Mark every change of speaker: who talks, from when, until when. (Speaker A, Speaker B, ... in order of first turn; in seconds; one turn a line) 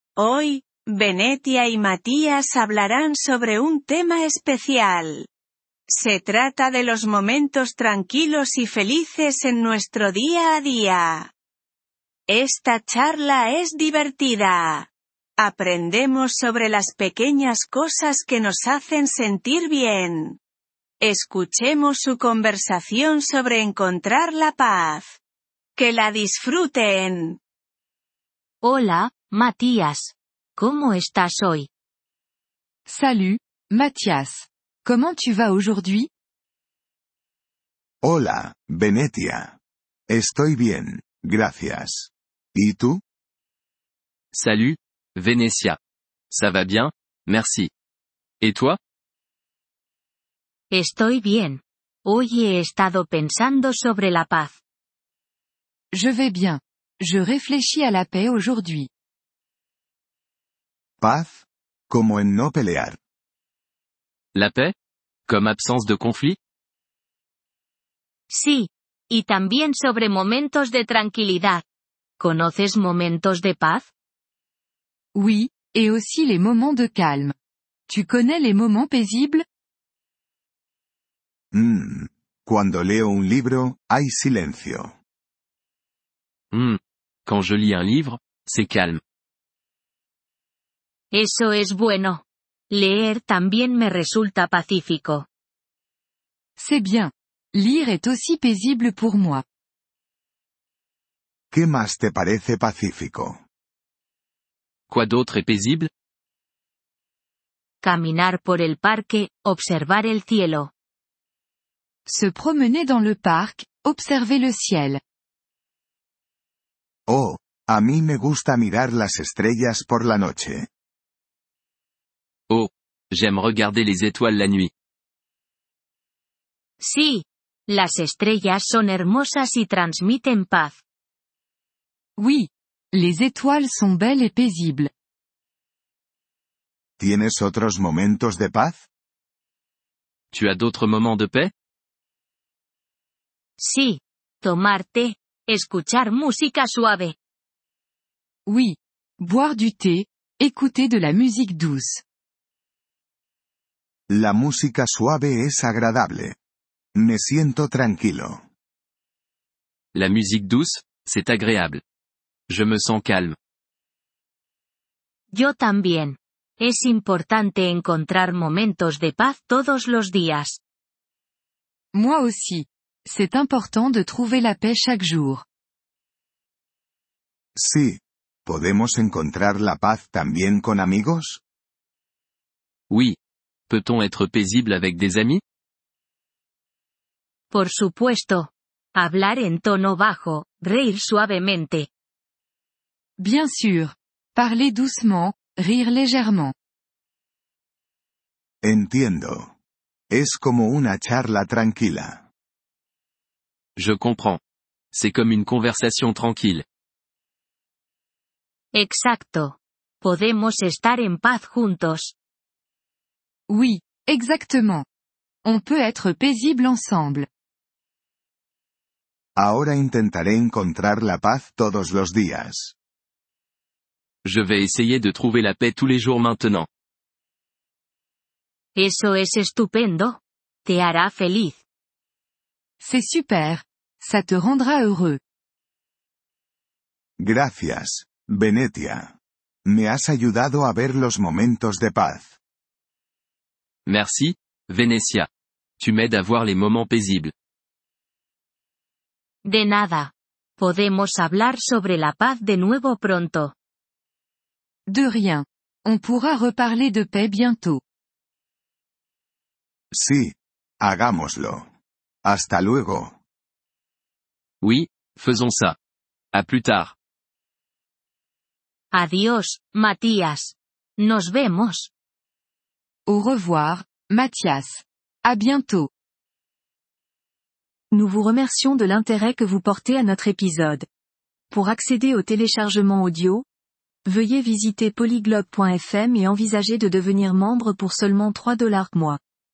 Speaker A: 0.2-5.3
Speaker A: 5.9-11.3
Speaker A: 12.3-14.9
Speaker A: 15.4-20.4
Speaker A: 21.0-25.1
Speaker A: 25.8-27.4
Speaker B: 28.6-31.7
Speaker C: 32.9-36.1
Speaker D: 38.0-39.6
Speaker D: 40.1-43.0
Speaker E: 44.3-45.8
Speaker E: 46.3-47.7
Speaker E: 48.4-48.8
Speaker B: 50.7-54.6
Speaker C: 55.9-58.9
Speaker D: 61.0-63.0
Speaker E: 64.3-64.7
Speaker E: 65.3-66.4
Speaker B: 68.3-71.6
Speaker B: 72.2-73.9
Speaker C: 75.1-77.3
Speaker C: 77.9-79.4
Speaker D: 81.5-85.0
Speaker E: 86.5-89.0
Speaker B: 91.1-95.3
Speaker C: 96.6-99.4
Speaker D: 101.5-103.4
Speaker E: 104.9-105.9
Speaker B: 107.8-110.7
Speaker C: 112.0-115.0
Speaker D: 117.1-120.7
Speaker E: 122.5-124.7
Speaker B: 126.8-130.8
Speaker C: 132.2-134.9
Speaker D: 137.0-138.8
Speaker E: 140.3-141.5
Speaker B: 143.6-147.2
Speaker C: 148.4-152.0
Speaker D: 154.1-156.4
Speaker D: 156.9-158.4
Speaker E: 159.9-161.8
Speaker E: 162.5-163.3
Speaker B: 165.3-170.6
Speaker C: 171.9-175.4
Speaker D: 177.6-181.4
Speaker E: 182.9-183.2
Speaker E: 183.7-185.4
Speaker B: 187.5-191.9
Speaker C: 193.2-196.5
Speaker D: 198.6-199.5
Speaker D: 200.1-202.2
Speaker E: 203.8-204.4
Speaker E: 204.9-206.6
Speaker B: 208.7-212.1
Speaker C: 213.5-214.8
Speaker C: 215.4-217.3
Speaker D: 219.3-222.7
Speaker E: 224.2-226.7
Speaker B: 228.7-231.6
Speaker C: 232.8-235.2
Speaker D: 237.2-242.3
Speaker E: 243.8-245.3
Speaker E: 245.8-247.3
Speaker B: 249.4-253.5
Speaker C: 254.9-257.8
Speaker D: 259.9-261.7
Speaker D: 262.2-263.2
Speaker E: 264.6-265.8
Speaker E: 266.3-266.9
Speaker B: 268.9-271.9
Speaker C: 273.1-275.9
Speaker F: 277.9-280.8
Speaker F: 281.5-283.4
Speaker F: 284.1-289.2